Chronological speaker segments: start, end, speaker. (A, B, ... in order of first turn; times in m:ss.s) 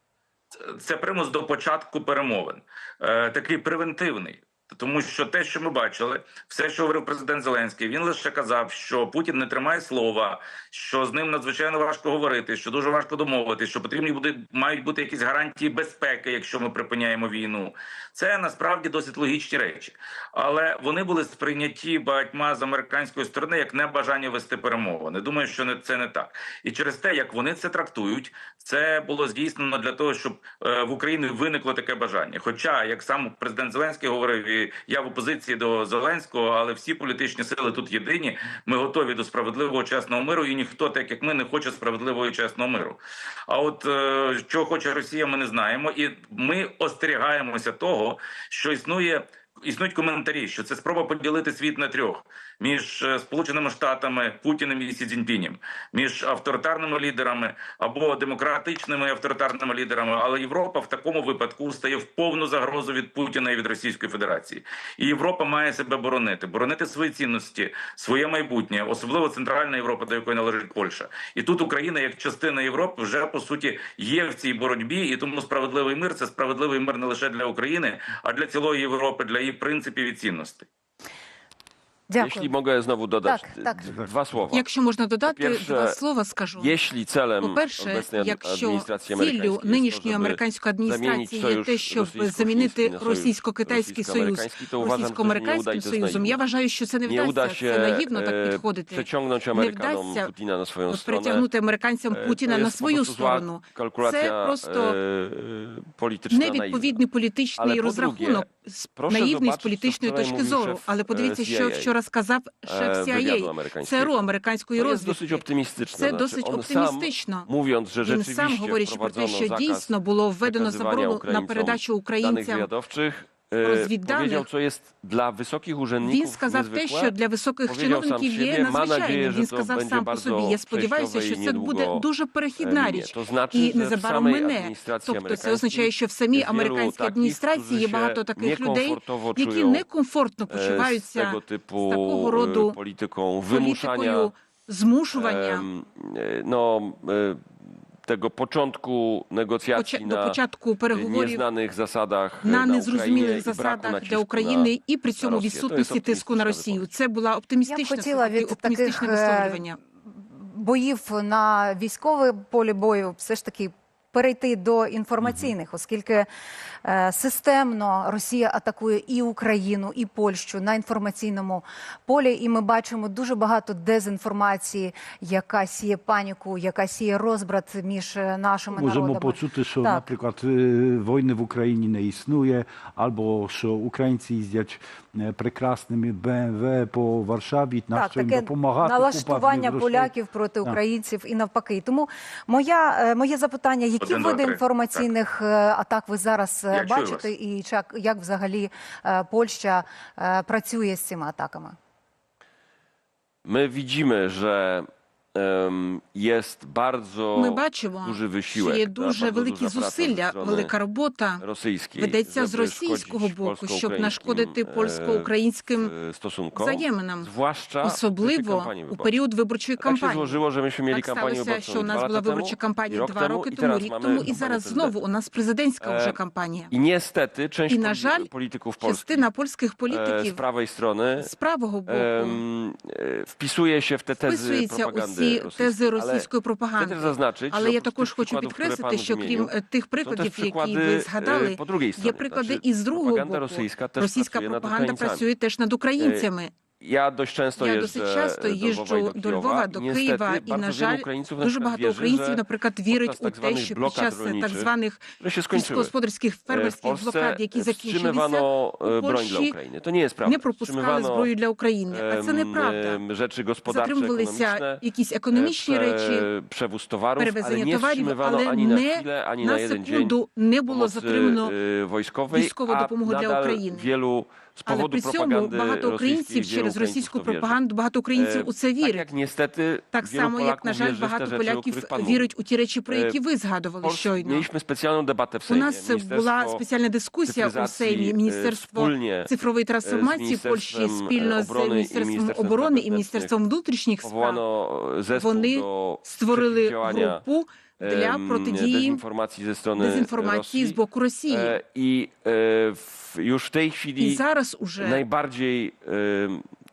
0:00.6-1:20.6 A
1:22.1-1:22.5 B
1:22.2-1:24.6 C
1:23.2-1:23.9 B
1:24.5-1:26.8 D
1:25.2-1:26.0 C
1:26.6-1:36.4 C
1:27.4-1:40.3 D
1:37.0-1:41.5 C
1:40.9-1:45.0 D
1:42.1-1:47.0 C
1:46.3-1:57.5 D
1:47.6-1:51.9 C
1:52.6-1:54.2 C
1:54.7-2:19.8 C
1:58.0-2:02.7 D
2:03.6-2:04.5 D
2:06.0-2:22.8 D
2:20.5-2:24.3 C
2:23.5-2:25.7 D
2:25.1-2:36.9 C
2:29.7-2:31.4 D
2:32.4-2:39.8 D
2:37.7-2:46.3 B
2:45.2-2:45.5 E
2:46.8-3:00.0 B
2:58.7-3:10.1 E
3:07.9-3:21.8 B
3:14.0-3:15.1 A
3:16.7-3:17.3 A
3:23.4-3:30.7 C
3:27.3-3:31.4 D
3:31.4-3:39.1 C
3:32.0-3:35.9 D
3:36.5-3:37.3 D
3:37.8-3:46.7 D
3:39.8-3:45.0 C
3:45.8-3:46.2 C
3:46.7-3:49.2 C
3:47.7-3:48.3 D
3:48.8-3:50.4 D
3:49.9-3:51.3 C
3:51.2-3:52.4 D
3:51.8-4:05.3 C
3:54.2-4:06.5 D
4:06.0-4:06.2 C
4:06.8-4:15.9 C
4:07.6-4:19.6 D
4:16.5-4:21.3 C
4:20.2-4:23.0 D
4:21.9-4:30.2 C
4:23.6-4:26.3 D
4:27.2-4:31.5 D
4:30.7-4:37.6 C
4:32.3-4:33.9 D
4:34.7-4:39.0 D
4:38.1-4:42.3 C
4:39.9-4:44.5 D
4:42.9-4:43.2 C
4:43.8-4:46.6 C
4:45.5-4:54.4 D
4:47.2-4:53.3 C
4:54.0-4:57.2 C
4:55.1-4:59.0 D
4:57.8-5:04.2 C
4:59.8-5:01.6 D
5:04.0-5:05.0 D
5:04.8-5:06.4 C